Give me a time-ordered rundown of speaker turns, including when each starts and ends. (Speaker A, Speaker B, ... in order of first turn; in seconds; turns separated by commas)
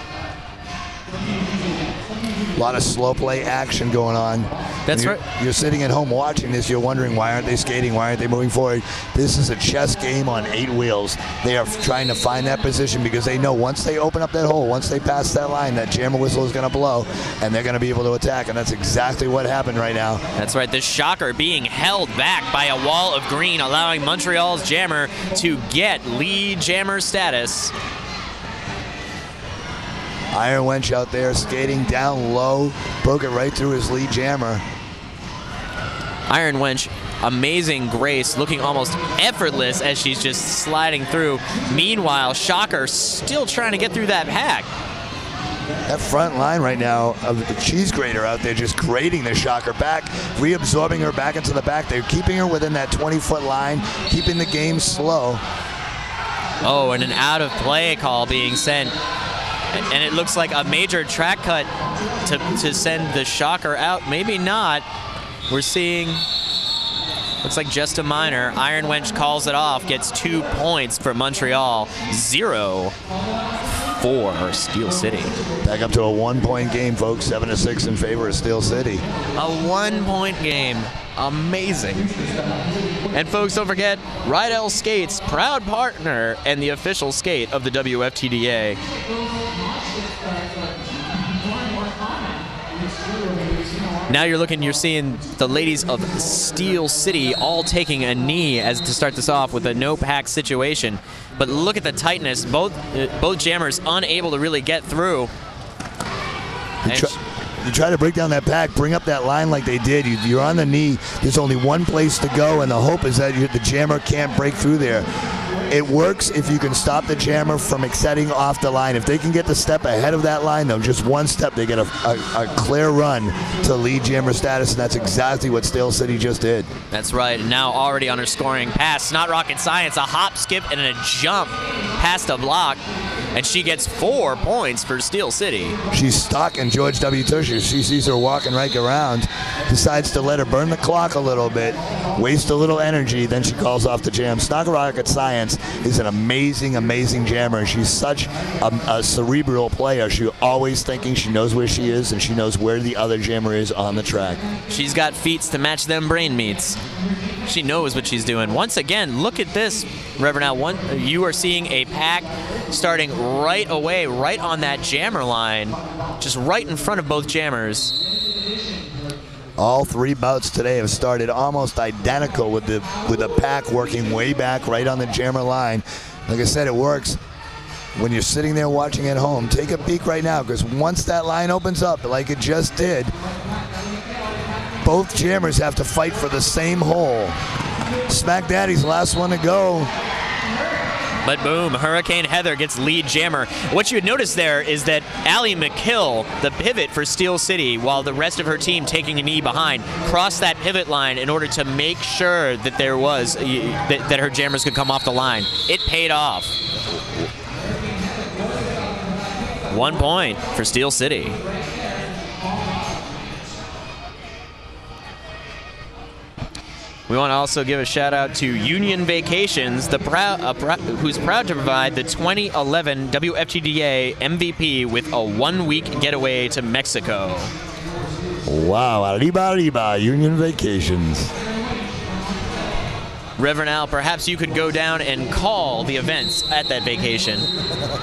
Speaker A: 2.6-20.2, Speaker B: 4.9-5.2, Speaker B: 20.4-27.7, Speaker A: 30.3-34.6, Speaker B: 36.3-44.7, Speaker A: 45.9-55.4, Speaker B: 56.6-58.9, Speaker B: 59.7-61.7, Speaker B: 62.2-64.8, Speaker B: 65.5-66.2, Speaker B: 67.4-72.9, Speaker B: 73.9-75.3, Speaker A: 75.6-79.0, Speaker B: 79.4-82.1, Speaker B: 83.1-88.8, Speaker B: 94.1-105.3, Speaker A: 106.8-115.1, Speaker B: 106.9-107.1, Speaker A: 115.7-126.7, Speaker B: 126.9-132.8, Speaker B: 133.3-135.8, Speaker A: 135.9-154.4, Speaker B: 154.7-156.8, Speaker B: 157.4-167.9, Speaker A: 169.6-177.2, Speaker A: 178.0-183.1, Speaker A: 184.8-187.4, Speaker A: 188.1-189.9, Speaker B: 191.2-206.5, Speaker B: 209.7-211.4, Speaker B: 217.1-227.5, Speaker A: 228.5-231.3, Speaker B: 233.4-237.5